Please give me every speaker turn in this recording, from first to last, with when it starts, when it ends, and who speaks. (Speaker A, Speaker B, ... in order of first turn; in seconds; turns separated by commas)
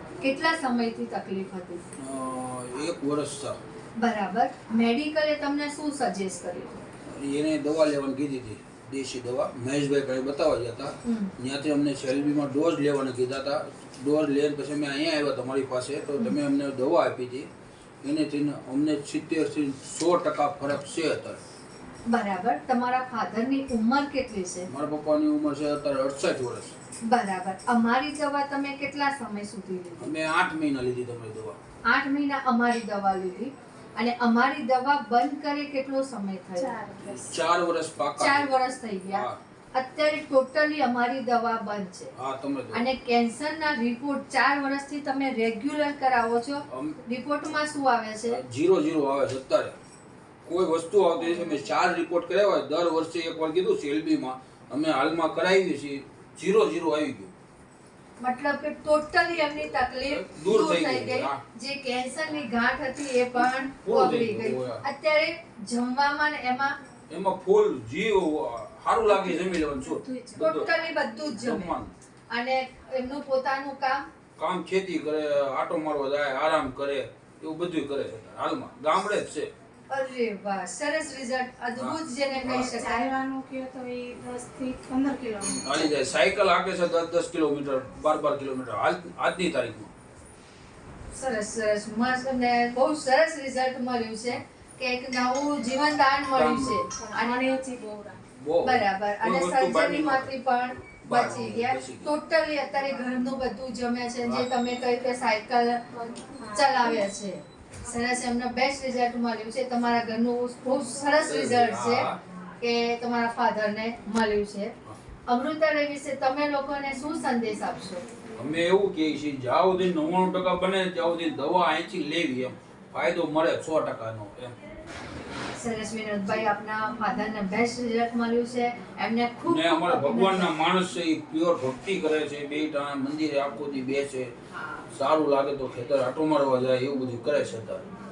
Speaker A: 0.2-1.8, Speaker B: 2.0-3.6, Speaker A: 4.0-6.8, Speaker B: 7.1-17.5, Speaker A: 11.0-11.3, Speaker B: 18.0-21.4, Speaker A: 22.1-24.7, Speaker B: 24.7-26.8, Speaker A: 27.0-30.1, Speaker B: 30.0-31.6, Speaker A: 31.9-36.8, Speaker C: 36.6-37.4, Speaker B: 37.0-39.4, Speaker A: 38.2-42.1, Speaker B: 42.2-42.8, Speaker A: 42.7-48.4, Speaker B: 46.7-47.0, Speaker B: 48.3-49.8, Speaker B: 50.5-57.3, Speaker A: 58.2-66.8, Speaker B: 59.5-61.4, Speaker B: 63.8-64.8, Speaker B: 67.1-70.7, Speaker C: 69.1-70.5, Speaker A: 70.4-71.7, Speaker B: 71.4-71.9, Speaker A: 72.3-74.0, Speaker B: 74.4-79.5, Speaker A: 79.9-83.1, Speaker B: 81.8-82.8, Speaker C: 82.4-85.8, Speaker B: 85.4-89.9, Speaker A: 91.1-97.5, Speaker B: 96.3-96.9, Speaker C: 97.0-98.2, Speaker B: 98.4-100.3, Speaker A: 98.6-105.8, Speaker B: 100.8-102.1, Speaker B: 104.2-104.5, Speaker C: 106.1-107.0, Speaker A: 106.5-112.1, Speaker B: 111.2-112.2, Speaker A: 112.6-114.7, Speaker A: 115.3-118.0, Speaker B: 118.4-124.6, Speaker A: 125.6-130.5, Speaker B: 129.5-134.3, Speaker B: 134.9-137.9